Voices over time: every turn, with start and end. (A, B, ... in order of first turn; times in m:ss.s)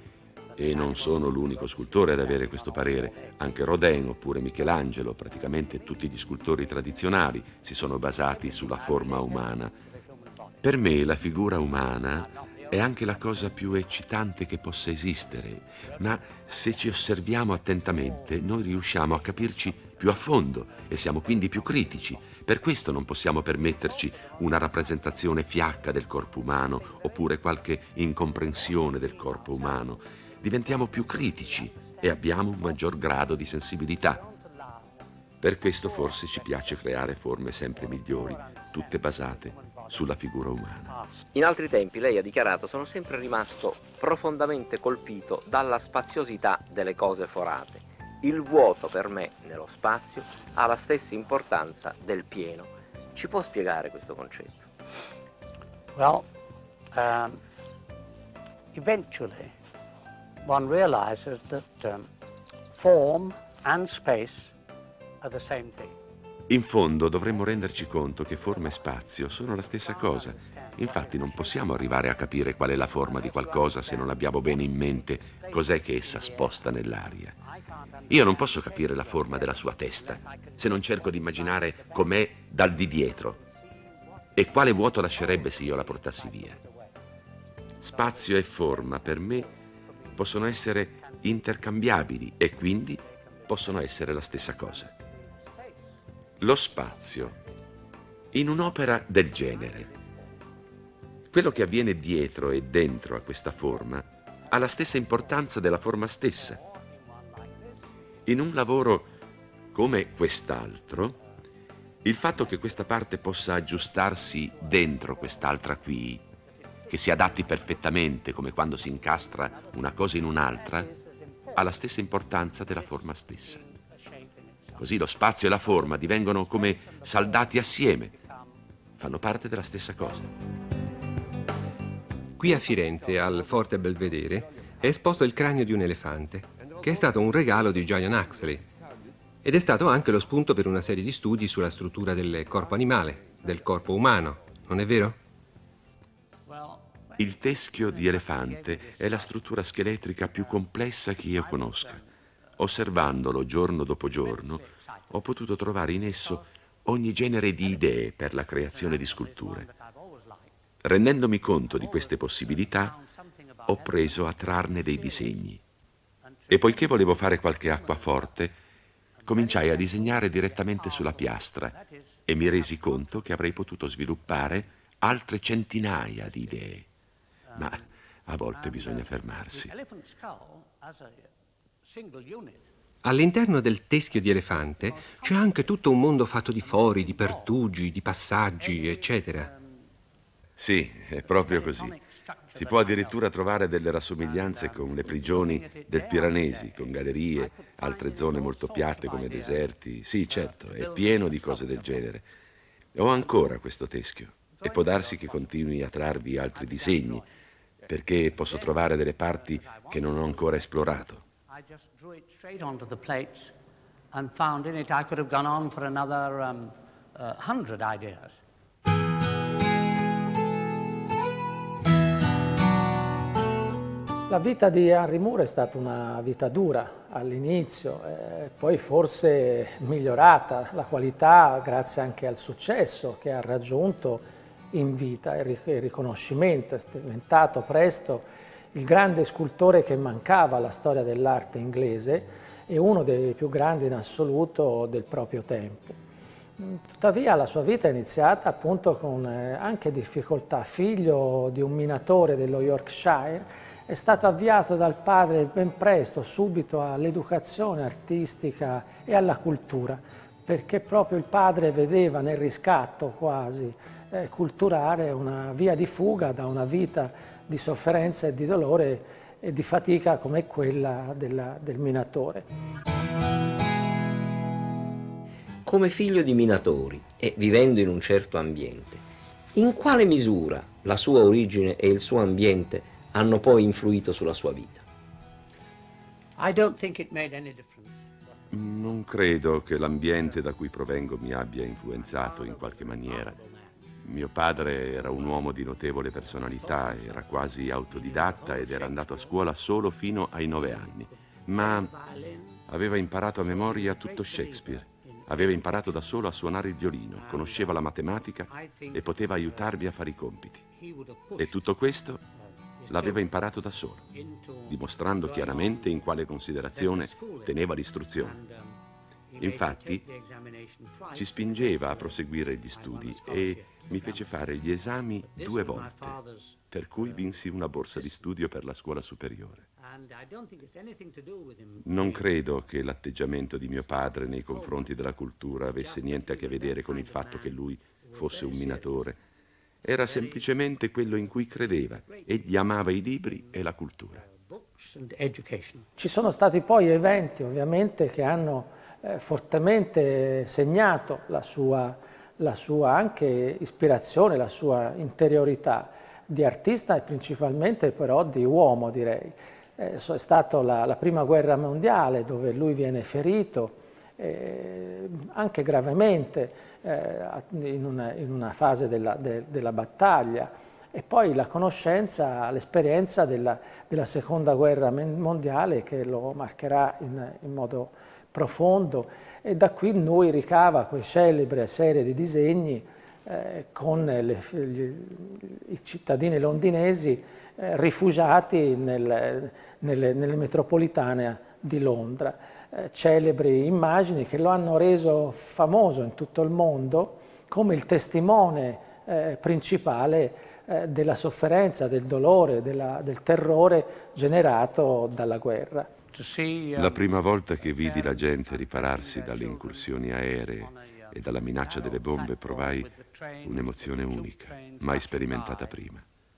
0:00.5-0:03.8 A
0:00.6-0:09.7 B
0:06.3-0:06.8 A
0:08.1-0:11.1 A
0:10.6-0:34.2 B
0:11.8-0:13.9 A
0:15.8-0:17.2 A
0:17.8-0:22.4 A
0:23.6-0:35.0 A
0:35.4-0:41.0 B
0:35.6-0:40.2 A
0:40.9-0:41.2 A
0:41.3-0:54.7 C
0:55.9-0:56.3 A
0:56.9-0:57.4 A
0:58.7-0:59.5 A
1:00.4-1:02.1 A
1:02.7-1:04.5 A
1:05.2-1:06.0 A
1:06.5-1:17.4 B
1:08.2-1:08.7 A
1:09.6-1:16.8 A
1:17.4-1:27.0 A
1:18.1-1:23.4 B
1:24.4-1:26.6 B
1:27.8-1:31.7 A
1:27.8-1:29.5 B
1:30.1-1:34.9 B
1:32.8-1:35.8 A
1:36.4-1:37.4 B
1:38.3-1:39.9 B
1:39.3-1:40.2 A
1:41.3-1:46.6 B
1:46.3-1:47.8 A
1:48.2-1:49.1 B
1:49.7-1:51.2 B
1:52.0-1:56.2 B
1:54.2-1:55.8 A
1:56.5-2:08.5 A
1:56.9-2:00.9 B
2:01.5-2:03.6 B
2:04.8-2:08.1 B
2:09.0-2:10.3 B
2:12.4-2:18.6 D
2:19.4-2:25.2 D
2:26.4-2:33.0 A
2:27.2-2:32.0 B
2:32.6-2:39.7 B
2:34.1-2:35.2 A
2:36.1-2:36.5 A
2:38.5-2:40.5 A
2:40.8-2:43.0 B
2:41.7-2:45.3 A
2:43.7-2:45.6 B
2:46.2-2:48.5 A
2:46.5-2:48.6 B
2:49.2-2:53.4 A
2:49.3-2:51.7 B
2:52.3-2:56.9 B
2:57.5-2:57.9 A
2:57.6-2:59.7 B
2:58.5-3:01.3 A
3:01.8-3:02.6 A
3:03.0-3:09.5 D
3:04.9-3:05.8 A
3:06.6-3:07.5 A
3:08.6-3:09.8 A
3:10.6-3:12.0 B
3:11.2-3:13.3 A
3:12.5-3:22.2 B
3:14.2-3:19.8 A
3:20.3-3:22.1 A
3:22.9-3:27.2 B
3:24.5-3:27.3 A
3:27.9-3:31.2 B
3:28.0-3:30.8 A
3:31.5-3:33.6 A
3:34.1-3:38.4 A
3:44.3-4:06.0 E
4:06.6-4:32.4 E
4:35.6-4:44.8 C
4:46.4-4:48.0 A
4:48.5-4:53.4 B
4:51.9-4:53.8 A
4:54.0-5:01.9 B
4:54.9-4:55.5 A
4:56.2-4:59.5 A
5:00.6-5:02.6 A
5:02.7-5:10.6 B
5:03.5-5:05.8 A
5:07.1-5:07.9 A
5:08.5-5:09.7 A
5:10.7-5:11.6 A
5:11.4-5:12.2 B
5:12.8-5:13.3 A
5:12.9-5:14.1 B
5:14.1-5:16.1 A
5:14.6-5:18.4 B
5:16.7-5:18.8 A
5:19.3-5:24.3 A
5:19.4-5:20.0 B
5:21.1-5:26.2 B
5:25.2-5:26.6 A
5:26.7-5:29.7 B
5:29.8-5:32.4 A
5:31.8-5:39.2 B
5:34.5-5:34.9 A
5:35.8-5:39.2 A
5:39.8-5:44.2 B
5:39.9-5:40.5 A
5:42.1-5:45.9 A
5:46.0-6:45.9 E
6:46.1-6:55.8 A
6:46.8-6:52.9 B
6:53.4-6:56.0 B